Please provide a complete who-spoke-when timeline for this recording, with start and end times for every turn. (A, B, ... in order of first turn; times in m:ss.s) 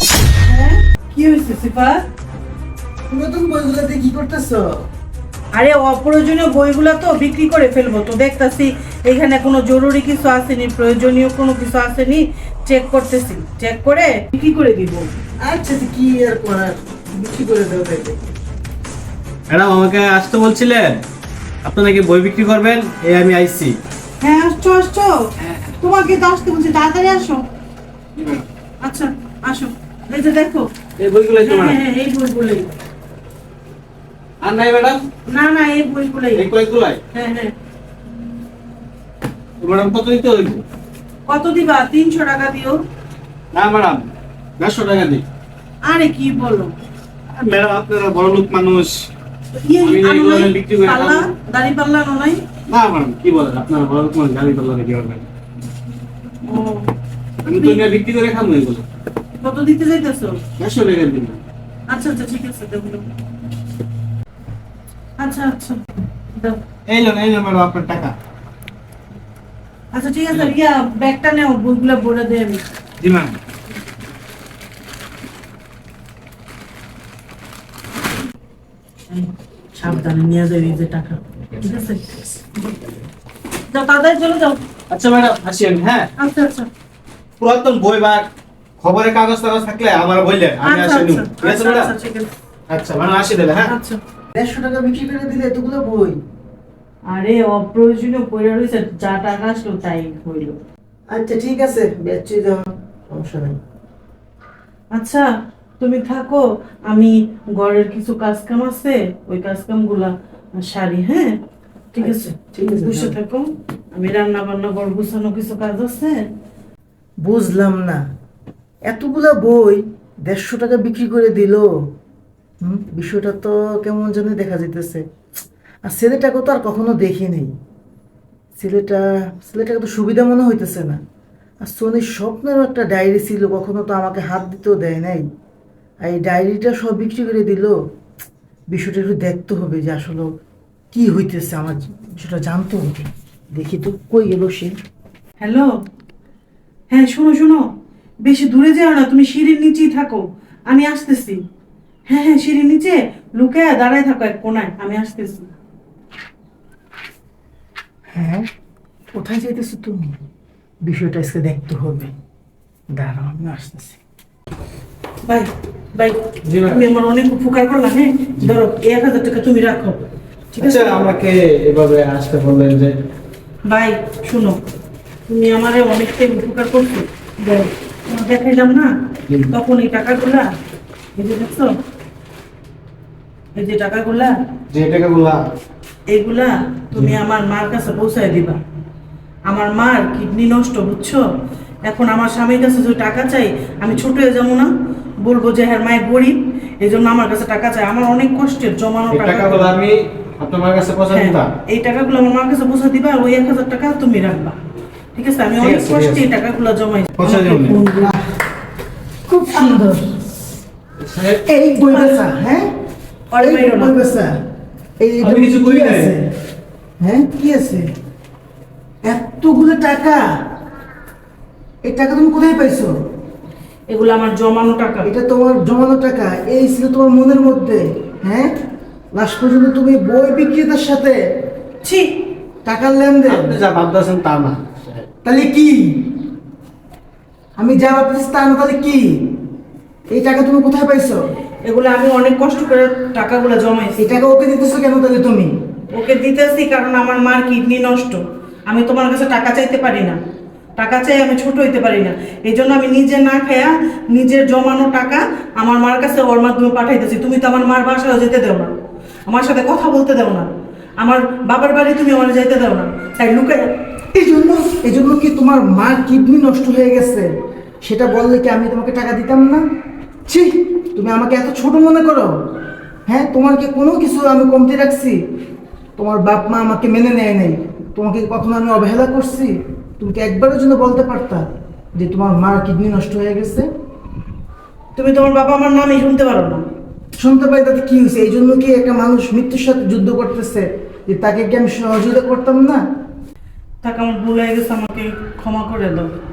0:00.4-0:02.0 A
0:03.1-0:04.8 B
0:05.6-0:15.1 A
0:15.4-0:18.3 B
0:19.5-0:21.0 C
0:21.6-0:23.8 C
0:24.2-0:25.2 A
0:25.8-0:27.4 A
0:28.2-0:28.4 C
0:28.8-0:30.7 A
0:31.0-0:31.8 C
0:31.4-0:32.7 A
0:34.4-0:35.0 C
0:35.2-0:36.5 A
0:36.3-0:37.0 C
0:37.1-0:37.6 A
0:39.6-0:40.6 C
0:41.3-0:42.8 A
0:43.5-0:44.1 C
0:44.6-0:45.2 C
0:45.8-0:46.7 A
0:47.3-0:49.1 C
0:49.6-0:52.4 A
0:49.8-0:51.3 C
0:52.7-0:55.3 C
0:56.4-0:56.9 A
0:57.5-0:57.8 A
0:57.5-0:58.8 C
0:59.4-1:00.4 A
1:00.6-1:01.4 C
1:01.9-1:03.1 A
1:05.2-1:05.8 A
1:06.3-1:06.6 A
1:06.9-1:08.2 C
1:09.9-1:12.6 A
1:13.0-1:13.4 C
1:19.1-1:22.3 A
1:23.7-1:24.6 A
1:24.9-1:26.1 C
1:26.2-1:26.7 A
1:27.4-1:28.3 C
1:28.8-1:31.9 C
1:30.6-1:32.3 A
1:32.7-1:33.7 C
1:33.7-1:34.0 A
1:34.4-1:36.2 B
1:37.1-1:40.6 A
1:41.1-1:43.6 B
1:44.9-1:45.3 A
1:45.8-1:51.4 A
1:51.9-1:56.2 A
1:52.0-1:53.2 B
1:57.2-1:58.1 B
1:58.8-2:01.7 B
2:02.6-2:05.0 B
2:05.8-2:07.5 B
2:08.6-2:11.0 B
2:11.6-2:15.3 B
2:16.0-2:17.8 B
2:18.7-2:20.4 B
2:20.9-2:24.8 B
2:25.4-2:25.7 A
2:26.9-2:27.6 A
2:28.2-2:31.4 A
2:32.1-2:35.5 A
2:38.1-2:38.5 B
2:39.1-2:40.2 B
2:40.8-2:42.1 B
2:42.9-2:44.0 B
2:45.3-2:50.0 A
2:46.4-2:46.8 C
2:50.6-2:53.0 C
2:50.6-2:50.9 A
2:53.7-2:54.6 A
2:55.3-2:58.9 A
2:59.5-3:00.5 A
3:01.2-3:01.8 A
3:03.6-3:04.4 A
3:04.7-3:05.4 C
3:06.1-3:08.6 A
3:09.5-3:11.2 A
3:11.8-3:14.7 A
3:15.2-3:19.7 A
3:19.1-3:21.5 C
3:21.1-3:24.6 A
3:25.2-3:28.1 A
3:25.6-3:26.3 C
3:27.2-3:27.8 C
3:27.7-3:28.2 B
3:29.3-3:30.1 B
3:29.5-3:30.0 A
3:31.0-3:31.4 C
3:31.4-3:32.7 B
3:31.9-3:32.2 A
3:33.3-3:34.0 A
3:33.4-3:34.4 B
3:35.0-3:36.3 B
3:35.2-3:36.1 C
3:37.0-3:37.9 B
3:39.0-3:40.2 B
3:41.8-3:42.9 B
3:43.9-3:45.1 A
3:45.0-3:48.5 B
3:49.1-3:51.2 B
3:51.8-3:52.2 A
3:52.6-3:53.6 B
3:53.3-3:55.1 C
3:55.2-3:56.2 B
3:57.6-3:59.4 B
4:00.1-4:01.2 B
4:01.6-4:04.1 A
4:04.0-4:05.5 B
4:05.9-4:10.2 A
4:10.8-4:18.7 A
4:19.3-4:20.5 A
4:21.0-4:23.7 A
4:24.1-4:27.3 B
4:27.8-4:29.6 B
4:30.3-4:32.3 B
4:33.1-4:35.2 B
4:36.0-4:41.4 B
4:42.0-4:43.7 B
4:45.0-4:46.6 A
4:47.2-4:52.8 B
4:53.8-4:56.1 A